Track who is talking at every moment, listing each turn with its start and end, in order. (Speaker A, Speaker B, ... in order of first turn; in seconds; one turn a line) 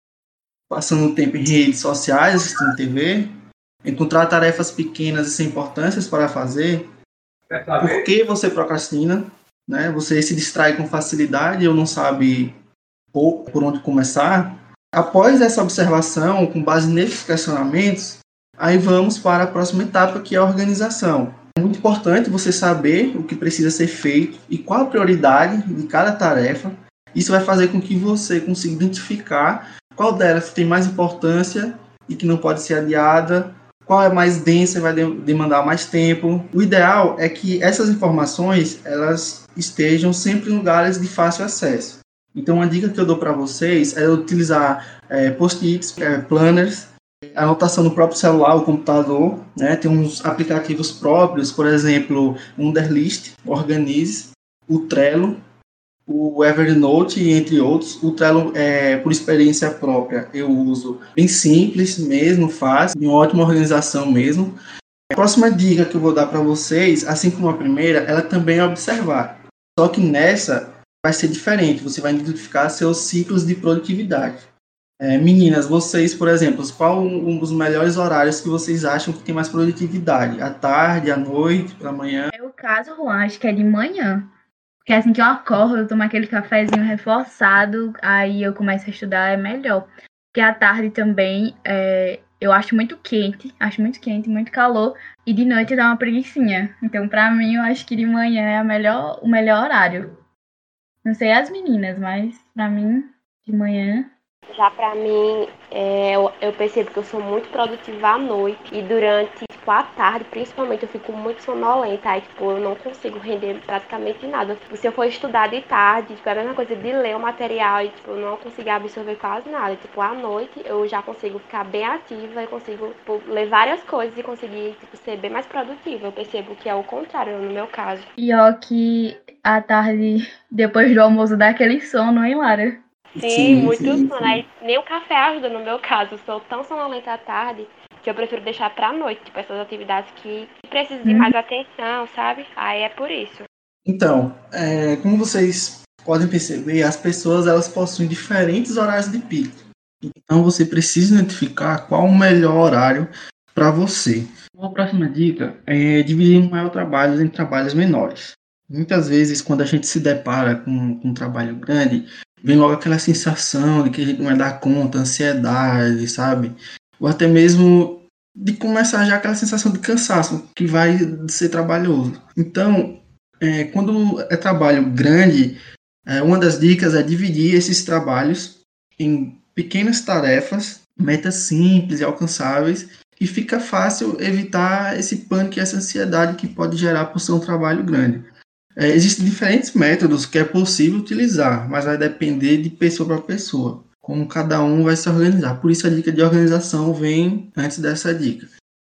Speaker A: 0.7-3.3
Speaker A: 3.8-6.8
Speaker A: 7.8-12.5
Speaker A: 13.1-55.4
Speaker A: 56.1-64.5
Speaker A: 65.1-74.5
Speaker A: 75.0-82.3
Speaker B: 82.3-84.3
Speaker B: 84.8-100.1
Speaker B: 101.0-104.1
Speaker C: 104.5-128.1
Speaker B: 128.2-132.8
Speaker C: 133.2-143.5
Speaker A: 133.2-134.4
Speaker B: 141.1-141.3
Speaker A: 143.8-149.5
Speaker A: 150.0-175.6
Speaker A: 176.1-188.2
Speaker A: 188.8-198.5